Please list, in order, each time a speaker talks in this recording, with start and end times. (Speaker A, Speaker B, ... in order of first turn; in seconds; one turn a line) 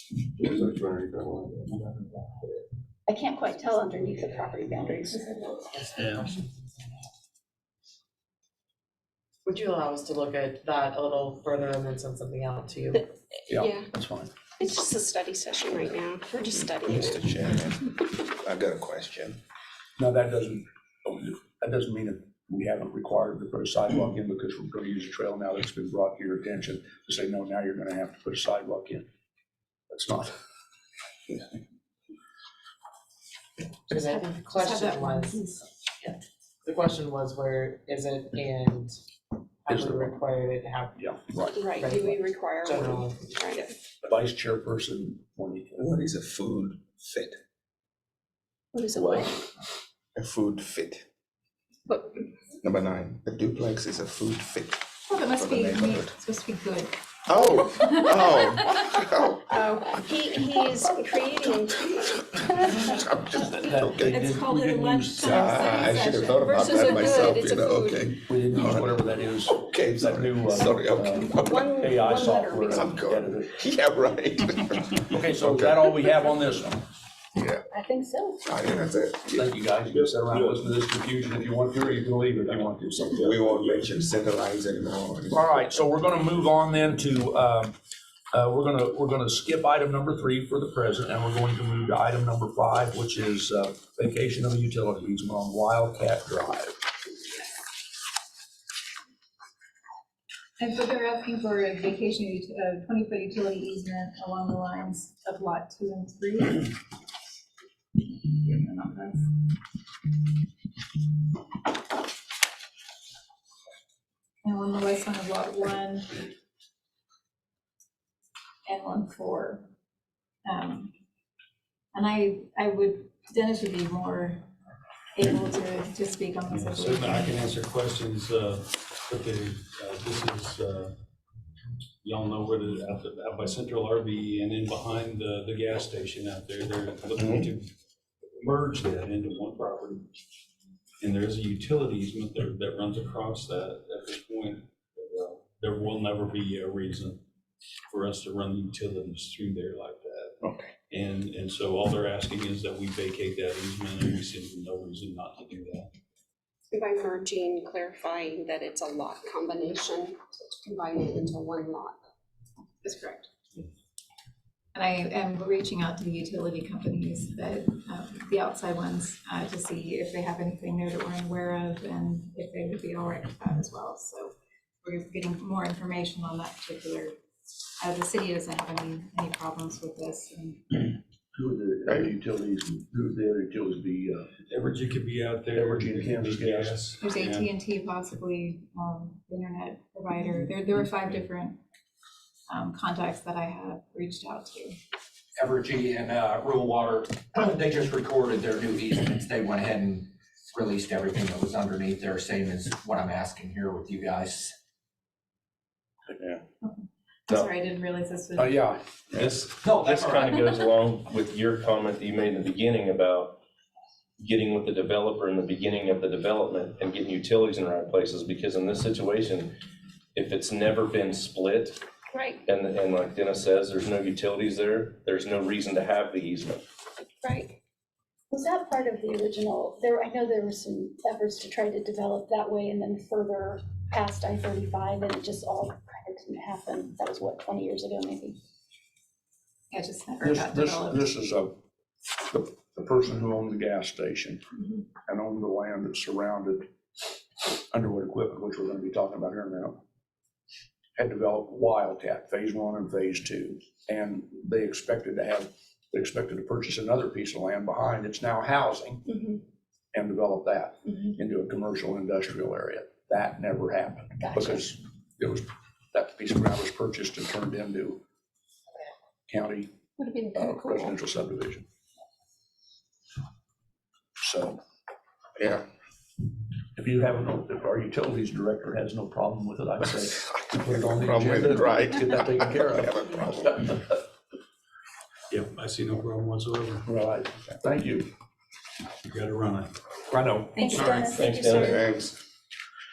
Speaker A: 0.4-2.6
Speaker B: 3.1-5.6
Speaker C: 5.7-6.4
Speaker D: 6.0-6.3
Speaker C: 9.4-13.1
Speaker E: 13.5-14.3
Speaker F: 14.6-17.2
Speaker G: 16.8-19.4
Speaker E: 20.0-29.0
Speaker E: 29.9-30.3
Speaker C: 33.9-35.4
Speaker H: 33.9-35.6
Speaker C: 36.6-39.0
Speaker C: 39.6-41.1
Speaker E: 39.7-40.2
Speaker E: 41.0-41.6
Speaker C: 41.8-43.4
Speaker E: 44.0-45.9
Speaker G: 45.8-47.4
Speaker E: 48.9-49.3
Speaker G: 50.1-51.0
Speaker G: 52.6-56.1
Speaker H: 55.1-58.5
Speaker G: 57.2-59.5
Speaker F: 59.6-62.7
Speaker G: 62.7-64.3
Speaker E: 63.5-65.6
Speaker H: 64.0-66.9
Speaker G: 65.2-71.7
Speaker F: 66.6-67.9
Speaker E: 68.3-73.6
Speaker F: 71.5-72.7
Speaker G: 72.7-75.9
Speaker E: 75.1-76.8
Speaker G: 77.3-77.6
Speaker B: 77.7-78.4
Speaker G: 78.5-79.5
Speaker E: 79.2-83.4
Speaker G: 83.2-85.7
Speaker E: 85.3-87.7
Speaker E: 88.3-96.8
Speaker H: 100.6-106.7
Speaker H: 108.0-109.3
Speaker H: 114.4-116.1
Speaker H: 118.7-119.7
Speaker H: 120.4-120.9
Speaker H: 121.9-124.5
Speaker H: 125.1-127.4
Speaker D: 126.5-130.9
Speaker D: 132.0-137.7
Speaker D: 138.4-140.1
Speaker D: 141.0-147.2
Speaker D: 147.9-155.9
Speaker F: 156.7-162.0
Speaker H: 162.8-163.3
Speaker H: 164.7-174.3
Speaker H: 174.8-177.1
Speaker H: 177.8-180.9
Speaker E: 181.3-184.3
Speaker D: 184.5-187.5
Speaker E: 185.5-186.8
Speaker H: 187.0-191.6
Speaker H: 192.5-194.8
Speaker I: 195.3-204.6
Speaker E: 206.1-206.4
Speaker H: 206.6-208.7
Speaker E: 208.3-209.5
Speaker J: 209.3-213.4
Speaker I: 209.6-210.3
Speaker J: 214.2-219.6
Speaker J: 220.2-221.8
Speaker J: 222.5-226.6
Speaker B: 228.3-238.4
Speaker H: 239.7-241.1
Speaker E: 240.2-241.5
Speaker E: 242.3-244.4
Speaker E: 244.9-246.7
Speaker E: 247.7-249.8
Speaker E: 251.0-259.0
Speaker E: 259.9-268.0
Speaker E: 269.3-269.7
Speaker E: 270.3-271.6
Speaker E: 274.2-274.6
Speaker G: 275.4-275.6
Speaker E: 276.8-283.8
Speaker G: 280.6-283.5
Speaker D: 285.3-286.8
Speaker E: 286.8-288.1
Speaker D: 289.1-289.7
Speaker E: 290.1-291.1
Speaker H: 290.6-291.5
Speaker B: 290.7-290.9
Speaker J: 290.7-291.8
Speaker G: 291.5-292.2